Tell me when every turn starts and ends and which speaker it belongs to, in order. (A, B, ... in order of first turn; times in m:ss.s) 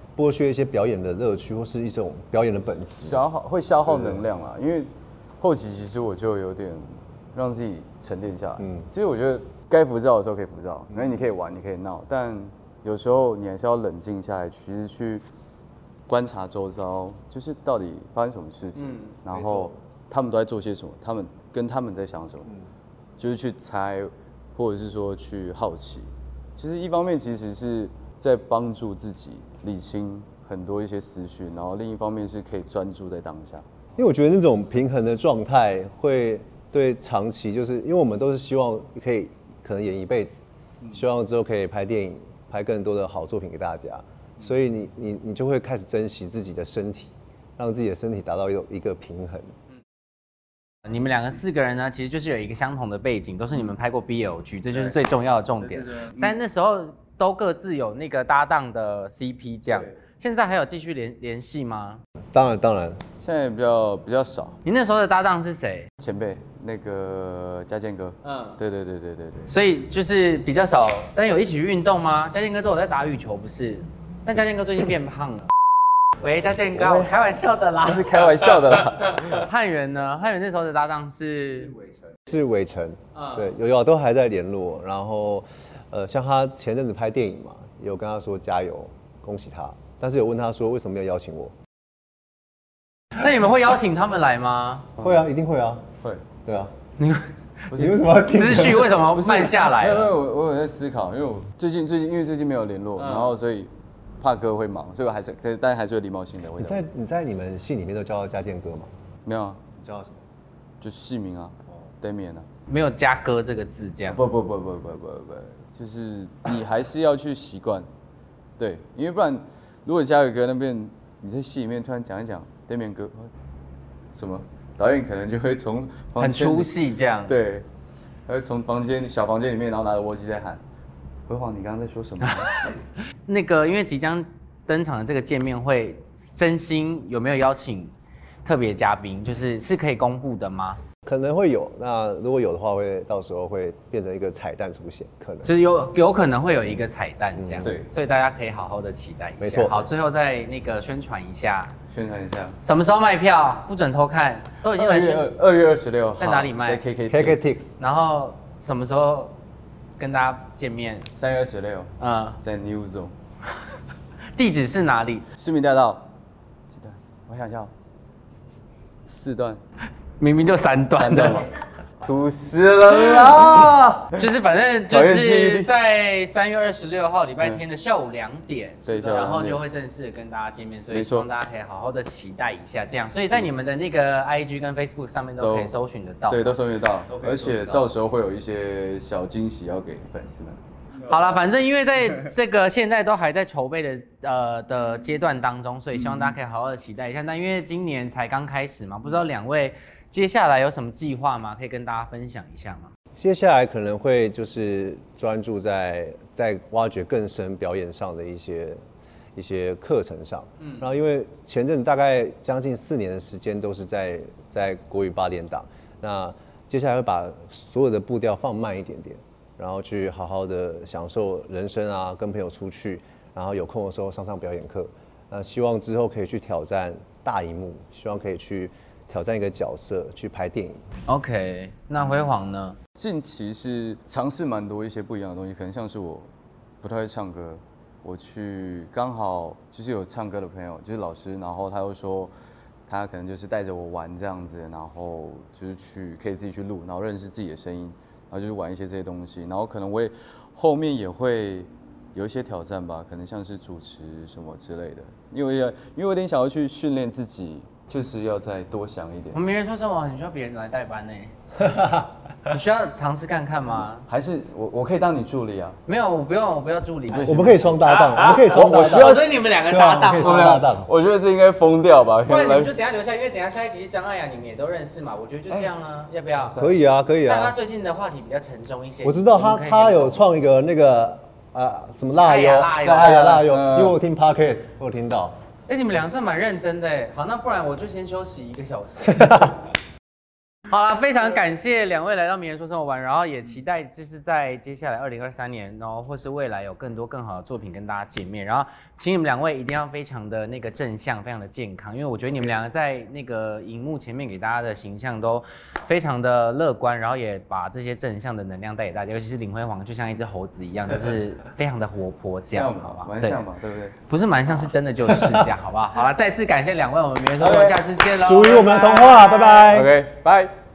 0:00.2-0:03.2 A
0:03.0-0:15.2 B
0:03.8-0:04.2 A
0:08.6-0:08.9 A
0:16.1-0:22.5 B
0:18.8-0:19.1 C
0:19.3-0:19.7 A
0:23.2-0:33.7 B
0:34.0-0:49.5 A
0:50.9-1:02.0 C
0:55.6-0:56.4 B
1:02.3-1:03.0 A
1:03.2-1:04.6 B
1:04.6-1:05.9 C
1:06.0-1:09.5 B
1:08.2-1:08.6 C
1:09.5-1:15.5 C
1:16.2-1:18.5 C
1:16.7-1:17.2 B
1:17.8-1:19.4 B
1:19.1-1:21.7 C
1:22.2-1:31.5 A
1:23.1-1:23.5 C
1:33.2-1:34.9 C
1:35.0-1:35.2 B
1:35.0-1:35.8 A
1:36.4-1:36.7 A
1:37.0-1:37.3 C
1:37.7-1:38.1 B
1:37.7-1:39.1 A
1:38.2-1:40.1 C
1:39.0-1:43.7 B
1:43.0-1:43.3 C
1:44.2-1:46.8 B
1:46.5-1:48.9 A
1:49.2-1:49.7 B
1:49.8-1:50.1 A
1:50.8-1:52.5 B
1:52.7-1:54.2 C
1:54.0-1:57.9 B
1:58.6-2:03.3 B
2:04.1-2:06.7 B
2:06.2-2:07.3 C
2:07.3-2:07.6 B
2:08.3-2:10.6 B
2:11.3-2:12.6 B
2:12.2-2:12.7 C
2:13.3-2:20.8 C
2:21.0-2:25.5 A
2:25.4-2:31.7 C
2:27.4-2:27.7 A
2:27.6-2:27.9 B
2:29.4-2:29.9 A
2:31.9-2:32.6 B
2:32.6-2:35.3 C
2:34.7-2:37.4 B
2:36.2-2:36.8 C
2:37.1-2:37.7 A
2:37.8-2:39.3 C
2:40.0-2:41.1 C
2:41.2-2:43.1 B
2:42.0-2:42.4 C
2:44.4-2:45.2 C
2:45.4-2:46.1 B
2:46.7-2:47.7 B
2:49.1-2:49.6 B
2:50.2-2:51.5 C
2:51.0-2:51.5 B
2:52.0-2:54.3 B
2:54.1-3:06.6 C
2:54.9-2:55.7 B
2:58.8-2:59.6 B
3:00.9-3:01.3 B
3:05.4-3:05.7 B
3:06.3-3:10.6 B
3:07.1-3:07.8 C
3:11.0-3:22.9 C
3:15.9-3:16.4 B
3:23.2-3:28.8 A
3:29.3-3:50.8 A
3:51.1-3:52.8 C
3:52.0-3:52.3 B
3:53.0-3:56.3 B
3:56.8-4:02.3 B
4:02.9-4:19.4 B
4:19.3-4:21.3 C
4:21.6-4:22.1 A
4:22.5-4:24.0 C
4:24.0-4:25.8 B
4:25.9-4:30.6 C
4:27.1-4:29.5 B
4:27.2-4:30.9 A
4:30.2-4:32.7 B
4:32.2-4:36.6 C
4:36.5-4:36.8 B
4:36.6-4:37.5 A
4:37.2-4:40.2 C
4:39.0-4:45.4 A
4:42.2-4:43.2 C
4:42.8-4:44.0 B
4:45.7-4:49.6 C
4:49.1-4:49.5 A
4:50.7-5:13.4 C
5:12.5-5:14.0 B
5:14.0-5:19.7 C
5:17.4-5:17.8 B
5:18.1-5:19.9 A
5:19.7-5:20.5 B